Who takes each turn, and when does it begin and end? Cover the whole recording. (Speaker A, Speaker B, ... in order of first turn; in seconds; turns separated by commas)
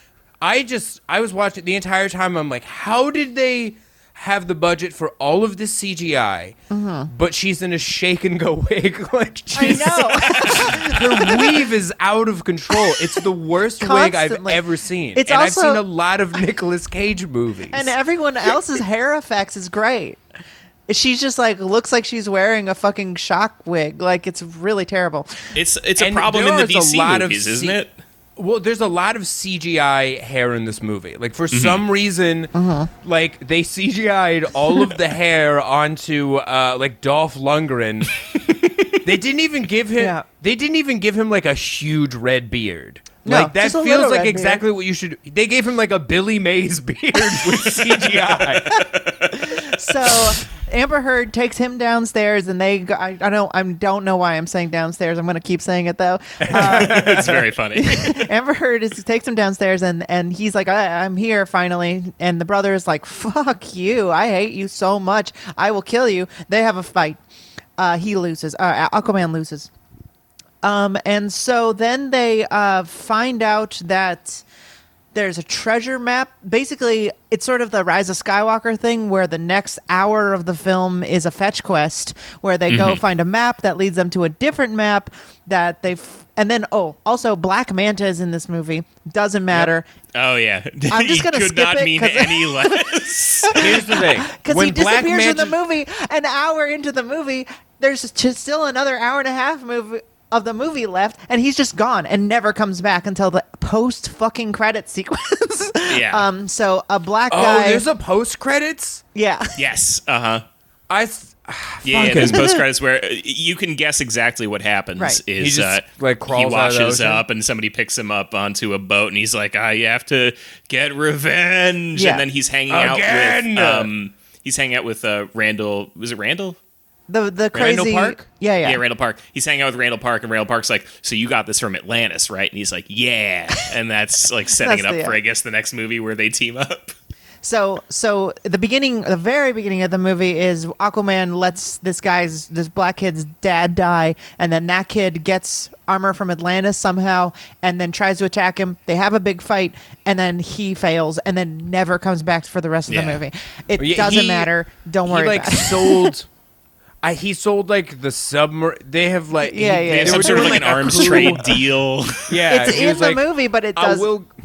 Speaker A: 0.4-6.5, Speaker B: 6.7-7.1, Speaker A: 7.1-17.9, Speaker B: 9.5-11.6, Speaker B: 13.8-15.8, Speaker B: 17.7-20.2, Speaker B: 20.9-25.5, Speaker C: 25.5-27.9, Speaker A: 26.0-27.8, Speaker A: 28.4-38.2, Speaker C: 31.5-31.8, Speaker B: 32.5-32.9, Speaker C: 38.5-38.9, Speaker A: 39.0-48.8, Speaker B: 40.0-40.2, Speaker B: 43.2-44.6, Speaker C: 48.8-49.3, Speaker B: 49.4-67.2, Speaker A: 56.4-57.4, Speaker C: 56.5-58.2, Speaker B: 67.8-69.7, Speaker B: 70.6-74.4, Speaker B: 75.1-89.8, Speaker C: 82.7-83.0, Speaker C: 90.1-93.7, Speaker B: 90.9-92.8, Speaker B: 93.5-107.8, Speaker A: 93.5-95.5, Speaker C: 105.9-106.2, Speaker A: 107.3-109.0, Speaker B: 109.1-109.6, Speaker C: 109.6-110.4, Speaker A: 110.9-112.5, Speaker C: 111.8-126.6, Speaker A: 115.4-117.2, Speaker B: 121.9-122.2, Speaker A: 122.7-123.9, Speaker B: 127.1-128.8, Speaker A: 127.5-128.2, Speaker C: 128.6-136.9, Speaker B: 134.6-135.2, Speaker B: 137.4-156.1, Speaker C: 152.9-153.2, Speaker A: 153.8-154.5, Speaker A: 155.1-156.3, Speaker A: 157.0-161.6, Speaker B: 159.4-161.3, Speaker C: 159.9-162.4, Speaker A: 162.3-164.3, Speaker B: 162.5-164.1